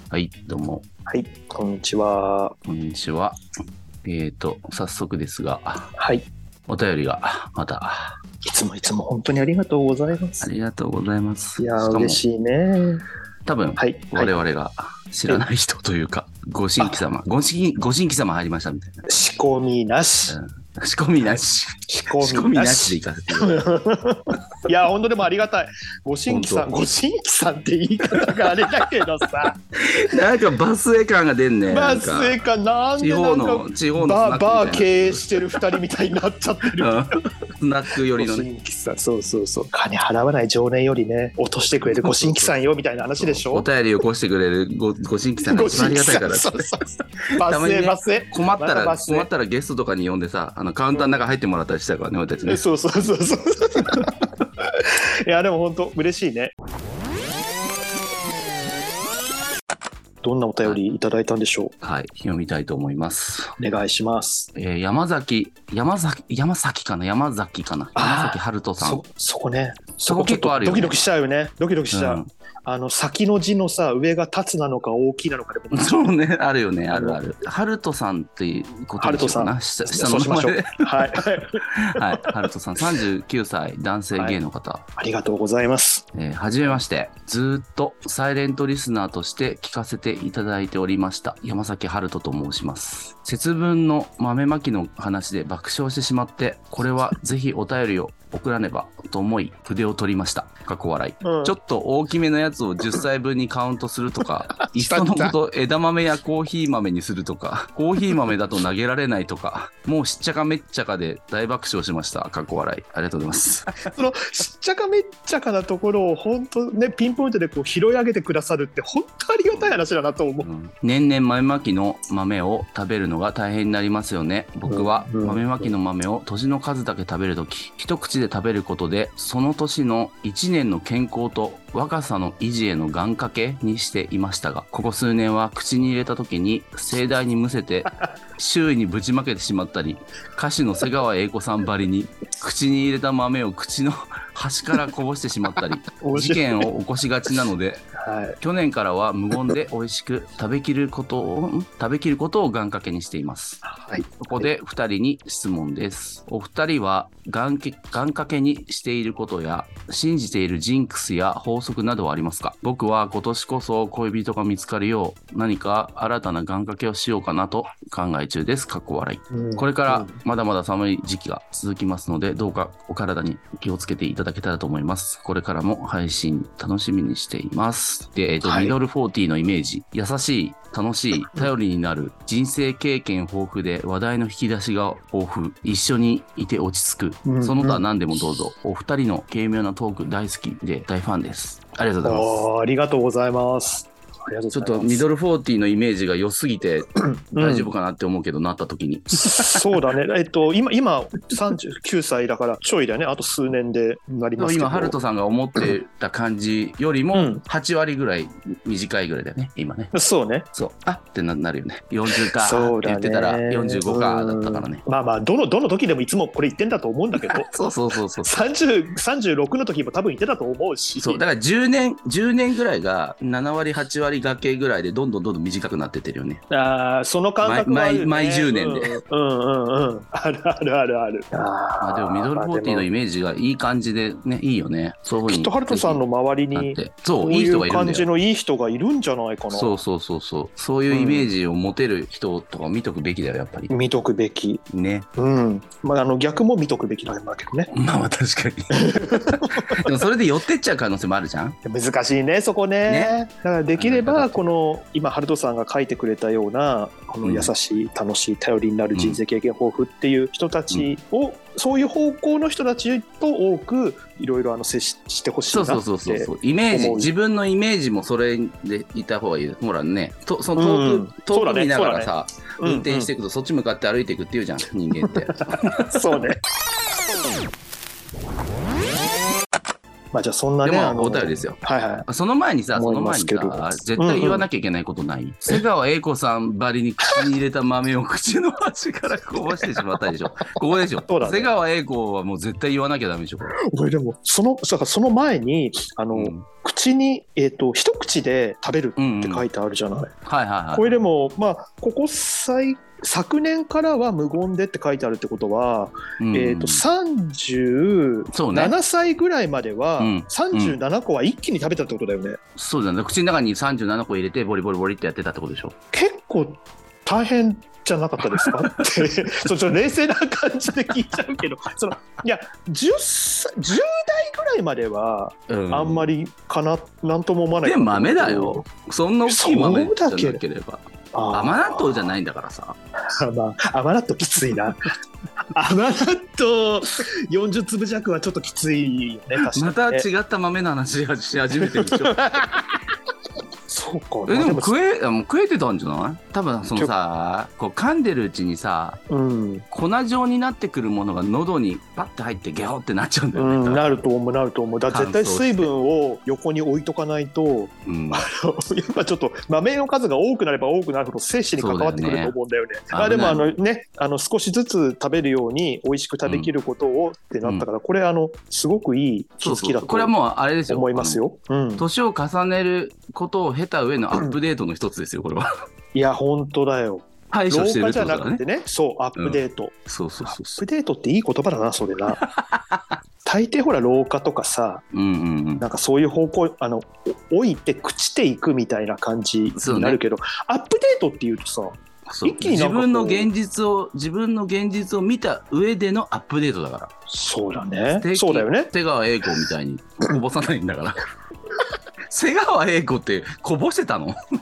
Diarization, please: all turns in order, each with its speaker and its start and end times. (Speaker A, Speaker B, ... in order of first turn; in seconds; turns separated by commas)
Speaker A: 0.1-0.8, Speaker B: 1.1-2.6, Speaker A: 2.7-3.4, Speaker A: 4.0-5.9, Speaker B: 6.0-6.3, Speaker A: 6.7-8.2, Speaker B: 8.4-10.5, Speaker A: 10.4-12.2, Speaker B: 11.6-13.0, Speaker A: 13.5-19.1, Speaker B: 13.8-14.3, Speaker B: 16.8-17.1, Speaker B: 19.1-20.4, Speaker A: 20.3-23.6, Speaker B: 21.9-29.6, Speaker A: 26.3-26.7, Speaker A: 28.2-28.9, Speaker A: 29.7-32.4, Speaker B: 31.7-37.2, Speaker A: 33.0-35.8, Speaker A: 36.8-38.5, Speaker B: 38.1-43.7, Speaker A: 41.7-42.6, Speaker A: 43.2-46.7, Speaker B: 45.4-49.3, Speaker A: 47.4-52.6, Speaker B: 52.5-56.5, Speaker B: 60.2-61.7, Speaker A: 61.8-63.5, Speaker B: 63.6-64.5, Speaker A: 64.5-69.0, Speaker B: 68.0-76.2, Speaker A: 70.1-71.0, Speaker A: 71.9-72.3, Speaker A: 75.7-84.8, Speaker B: 76.9-77.2, Speaker B: 79.0-82.4, Speaker B: 85.0-86.0, Speaker A: 86.1-113.8, Speaker B: 101.2-101.6, Speaker B: 104.6-105.3, Speaker B: 113.8-120.5, Speaker A: 119.5-119.8, Speaker A: 120.4-147.8, Speaker B: 124.7-125.7, Speaker B: 146.0-146.7, Speaker B: 148.0-148.4, Speaker A: 148.4-153.6, Speaker B: 153.6-154.5, Speaker A: 154.2-192.4, Speaker B: 169.3-170.2, Speaker B: 178.4-178.7, Speaker B: 187.3-187.8, Speaker B: 192.0-195.0, Speaker A: 194.5-199.7, Speaker B: 197.0-197.7, Speaker B: 199.2-205.0, Speaker A: 204.4-209.9, Speaker B: 207.1-207.4, Speaker B: 209.9-210.5, Speaker A: 210.5-214.8, Speaker B: 212.1-217.5, Speaker A: 217.2-218.4, Speaker B: 218.2-221.2, Speaker A: 221.0-226.4, Speaker B: 226.5-232.9, Speaker A: 227.4-229.0, Speaker A: 231.8-236.0, Speaker B: 235.3-239.8, Speaker A: 236.5-238.1, Speaker A: 239.5-243.7, Speaker B: 240.9-241.3, Speaker B: 243.7-244.6, Speaker A: 244.7-245.1, Speaker B: 245.2-247.7, Speaker A: 247.7-251.6, Speaker B: 248.7-249.9, Speaker B: 251.7-267.1, Speaker A: 252.9-253.2, Speaker A: 253.8-254.4, Speaker A: 257.2-257.5, Speaker A: 258.9-259.2, Speaker A: 265.5-276.2, Speaker B: 270.6-273.1, Speaker B: 275.0-276.4, Speaker B: 280.1-282.1, Speaker A: 280.6-293.6, Speaker B: 282.7-284.5, Speaker B: 290.5-291.5, Speaker B: 293.6-300.1, Speaker A: 296.1-296.5, Speaker A: 299.0-299.4, Speaker A: 300.3-300.9, Speaker B: 300.7-312.4, Speaker A: 306.2-306.8, Speaker A: 308.3-308.8, Speaker A: 310.0-310.8, Speaker A: 312.6-315.8, Speaker B: 315.9-328.7, Speaker A: 318.3-318.9, Speaker A: 325.5-326.1, Speaker A: 327.6-332.8, Speaker B: 329.3-330.4, Speaker B: 331.1-332.1, Speaker B: 333.2-334.9, Speaker B: 335.5-340.1, Speaker A: 339.4-342.2, Speaker B: 341.6-342.8, Speaker B: 343.7-344.7, Speaker A: 344.3-349.0, Speaker B: 349.1-349.6, Speaker A: 349.7-353.8, Speaker B: 353.4-370.1, Speaker A: 354.9-355.7, Speaker A: 357.9-358.3, Speaker A: 361.6-362.3, Speaker A: 362.9-363.5, Speaker A: 369.4-371.2, Speaker B: 370.7-371.9, Speaker A: 371.8-375.5, Speaker B: 375.9-382.2, Speaker A: 377.3-378.4, Speaker A: 379.2-380.6, Speaker A: 382.2-383.0, Speaker B: 383.2-384.8, Speaker A: 384.9-385.6, Speaker B: 385.6-393.3, Speaker A: 389.6-390.0, Speaker A: 392.1-396.9, Speaker B: 397.1-398.7, Speaker A: 397.9-401.0, Speaker A: 402.1-404.2